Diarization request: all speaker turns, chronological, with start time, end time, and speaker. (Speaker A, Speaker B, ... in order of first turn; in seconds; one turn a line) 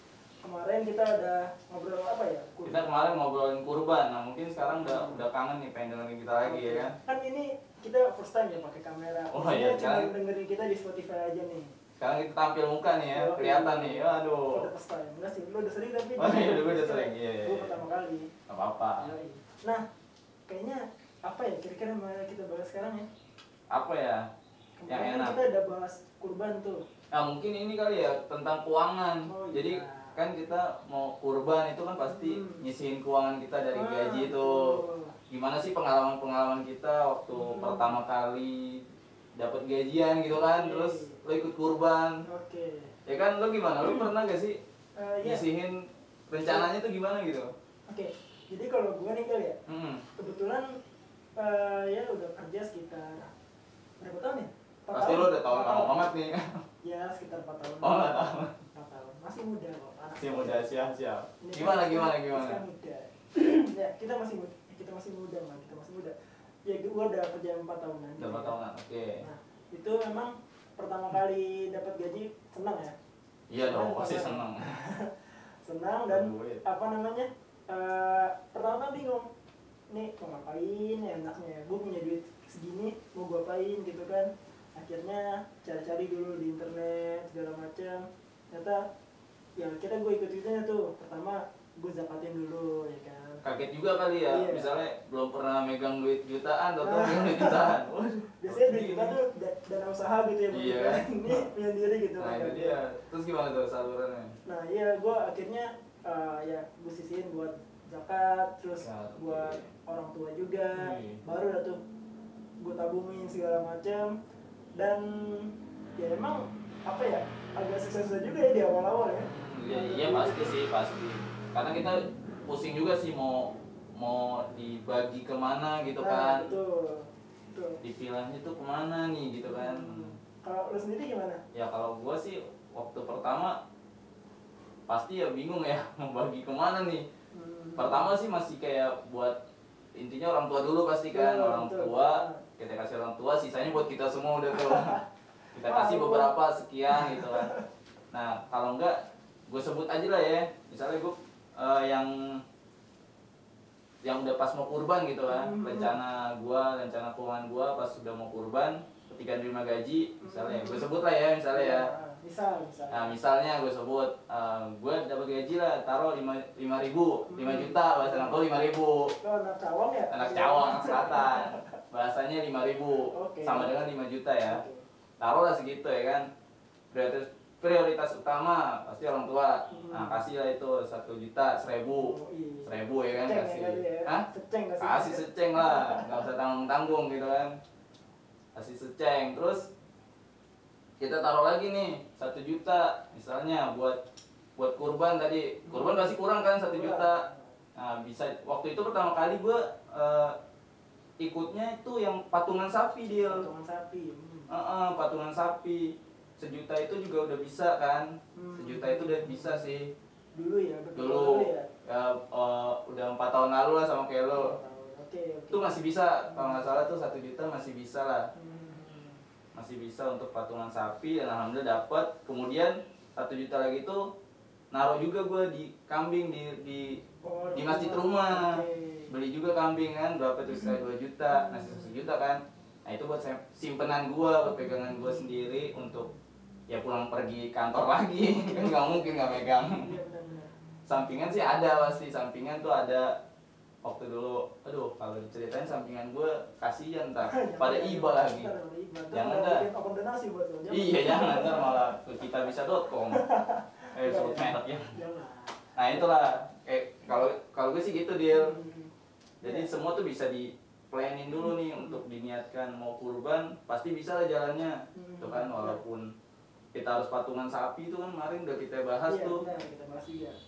Speaker A: 0.4-3.2
Speaker B: 2.6-6.9
Speaker A: 4.7-5.3
Speaker A: 6.4-11.8
Speaker B: 9.3-10.1
Speaker B: 12.0-14.7
Speaker A: 13.1-18.3
Speaker B: 16.2-17.8
Speaker B: 18.5-19.1
Speaker A: 19.0-19.8
Speaker A: 20.5-23.1
Speaker B: 23.7-24.3
Speaker A: 24.8-26.8
Speaker B: 24.9-25.4
Speaker B: 27.1-34.8
Speaker A: 29.3-30.2
Speaker A: 32.0-32.6
Speaker A: 33.7-35.1
Speaker B: 35.3-38.8
Speaker A: 37.3-38.0
Speaker B: 39.4-42.2
Speaker A: 40.4-41.2
Speaker A: 42.3-42.9
Speaker B: 43.1-44.6
Speaker A: 43.8-44.1
Speaker A: 45.0-45.5
Speaker B: 45.2-47.5
Speaker A: 46.4-46.7
Speaker A: 47.9-49.6
Speaker B: 49.7-50.0
Speaker A: 50.1-50.7
Speaker A: 51.4-53.3
Speaker A: 54.0-56.1
Speaker B: 54.9-56.6
Speaker A: 56.8-60.6
Speaker B: 57.8-58.5
Speaker B: 60.2-62.6
Speaker A: 61.4-66.2
Speaker A: 66.7-68.6
Speaker B: 68.2-69.2
Speaker A: 69.2-73.0
Speaker B: 73.5-74.7
Speaker A: 73.6-75.1
Speaker A: 75.6-79.3
Speaker B: 76.1-76.6
Speaker A: 79.9-88.8
Speaker A: 89.6-93.4
Speaker B: 93.4-99.2
Speaker A: 94.3-94.7
Speaker A: 96.8-97.7
Speaker A: 98.4-102.8
Speaker B: 100.5-101.4
Speaker B: 102.2-104.3
Speaker A: 104.5-111.8
Speaker B: 108.8-109.7
Speaker B: 110.7-111.2
Speaker A: 112.6-114.1
Speaker A: 114.8-120.6
Speaker B: 119.2-126.5
Speaker A: 126.0-127.8
Speaker B: 127.8-130.2
Speaker A: 129.4-131.4
Speaker B: 131.5-133.6
Speaker B: 134.9-137.1
Speaker A: 137.3-138.1
Speaker B: 137.8-139.4
Speaker B: 139.9-145.0
Speaker A: 141.1-142.4
Speaker A: 144.5-145.0
Speaker B: 145.5-147.5
Speaker A: 145.6-146.3
Speaker A: 146.9-147.6
Speaker B: 148.1-149.0
Speaker B: 149.5-152.4
Speaker B: 154.0-161.9
Speaker A: 155.3-156.0
Speaker A: 160.2-160.9
Speaker A: 161.5-163.1
Speaker B: 162.9-169.1
Speaker A: 167.3-168.4
Speaker A: 169.2-171.7
Speaker B: 170.1-174.6
Speaker A: 173.1-173.8
Speaker A: 174.4-174.8
Speaker B: 175.2-176.3
Speaker B: 176.9-184.3
Speaker A: 179.7-180.2
Speaker A: 181.8-186.3
Speaker B: 184.8-187.6
Speaker B: 188.6-189.7
Speaker B: 191.0-194.0
Speaker B: 194.6-197.2
Speaker A: 195.7-197.5
Speaker B: 197.8-200.3
Speaker B: 201.2-203.5
Speaker A: 203.2-204.5
Speaker B: 204.5-209.9
Speaker A: 208.4-209.7
Speaker A: 210.3-211.7
Speaker B: 211.0-214.6
Speaker A: 214.3-215.8
Speaker B: 215.5-218.3
Speaker A: 216.3-216.9
Speaker A: 218.3-219.2
Speaker B: 219.5-224.0
Speaker B: 224.7-227.0
Speaker A: 227.2-229.1
Speaker B: 227.6-236.1
Speaker A: 230.4-232.1
Speaker A: 234.8-236.1
Speaker B: 236.7-239.9
Speaker A: 238.2-240.5
Speaker B: 240.9-243.1
Speaker B: 243.8-248.5
Speaker A: 247.2-252.0
Speaker B: 249.1-249.7
Speaker B: 250.7-253.2
Speaker A: 253.1-256.1
Speaker B: 253.9-254.9
Speaker B: 255.8-258.5
Speaker A: 258.3-258.9
Speaker B: 259.4-266.1
Speaker A: 259.4-259.7
Speaker A: 261.4-262.0
Speaker A: 264.9-265.8
Speaker B: 266.7-269.4
Speaker A: 269.1-270.4